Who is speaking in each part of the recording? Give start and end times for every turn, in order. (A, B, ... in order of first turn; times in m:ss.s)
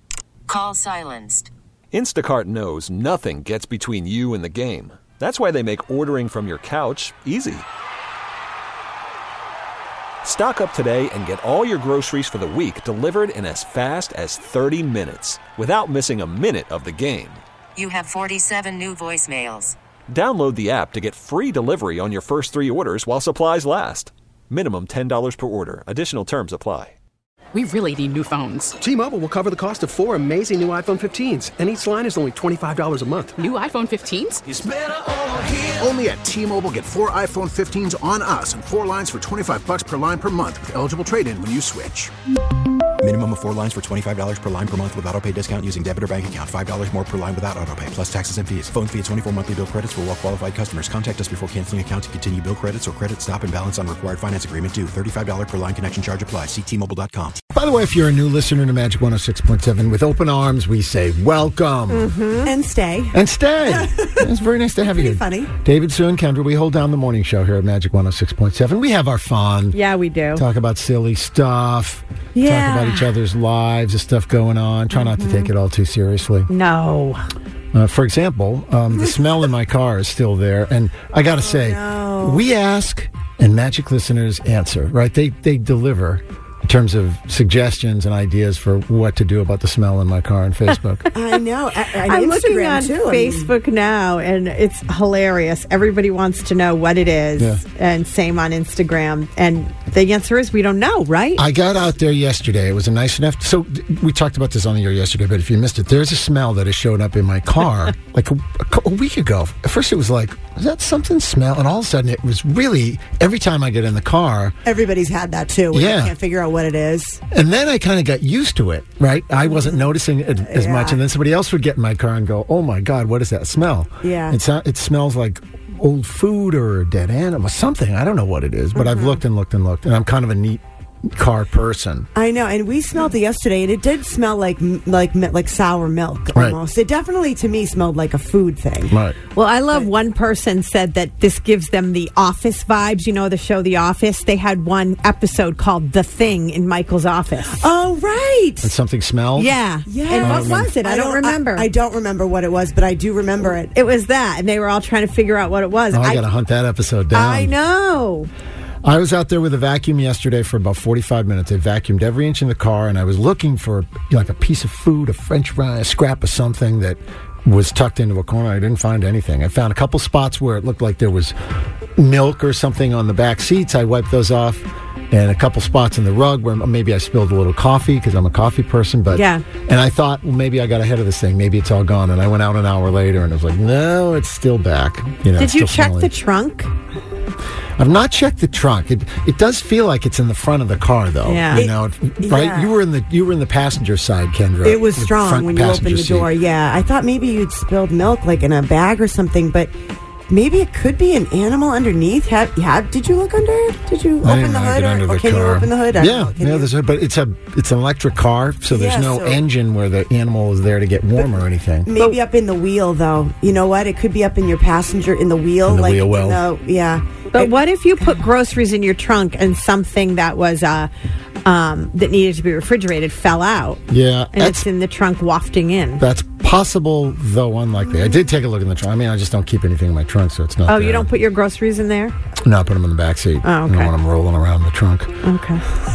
0:00.5-0:01.5 A
0:01.9-0:07.6 B
0:10.2-0:17.4 B
0:17.8-0:19.8 A
0:20.1-0:26.9 B
0:27.5-0:28.7 C
0:28.8-0:33.5 D
0:33.4-0:34.4 C
0:34.5-0:42.1 E
0:43.0-0:57.4 F
0:57.5-1:02.2 G
1:02.0-1:02.5 H
1:02.4-1:04.3 I
1:03.1-1:09.8 G
1:04.9-1:05.5 I
1:09.7-1:10.4 H
1:10.3-1:16.5 G
1:12.4-1:12.8 H
1:16.5-1:17.3 H
1:17.7-1:31.1 G
1:21.3-1:22.4 I
1:31.1-1:33.5 I
1:32.1-1:41.4 H
1:37.4-1:37.6 G
1:41.4-1:54.6 G
1:54.6-1:57.2 I
1:55.7-1:56.1 G
1:57.3-2:12.1 G
1:59.4-2:01.0 I
2:04.0-2:04.4 I
2:08.7-2:09.1 I
2:12.1-2:19.0 I
2:18.9-2:19.2 G
2:19.3-2:27.5 H
2:27.4-2:28.7 I
2:28.6-2:29.6 G
2:29.4-2:31.6 H
2:29.8-2:33.7 I
2:30.2-2:30.7 G
2:33.7-2:36.2 H
2:35.9-2:37.5 G
2:37.2-2:38.3 H
2:38.8-2:51.3 G
2:52.0-3:06.2 G
3:05.4-3:06.7 H
3:07.8-3:16.3 G
3:11.5-3:12.7 I
3:14.6-3:19.7 I
3:20.3-3:26.7 I
3:24.2-3:31.9 G
3:28.7-3:29.4 I
3:31.2-3:38.2 I
3:35.7-3:36.4 G
3:37.4-3:40.9 H
3:41.4-3:43.8 H
3:43.9-3:44.7 G
3:44.4-3:46.0 H
3:46.0-3:51.2 G
3:50.7-3:52.1 H
3:52.4-3:55.2 G
3:53.4-3:53.9 H
3:55.2-3:55.6 H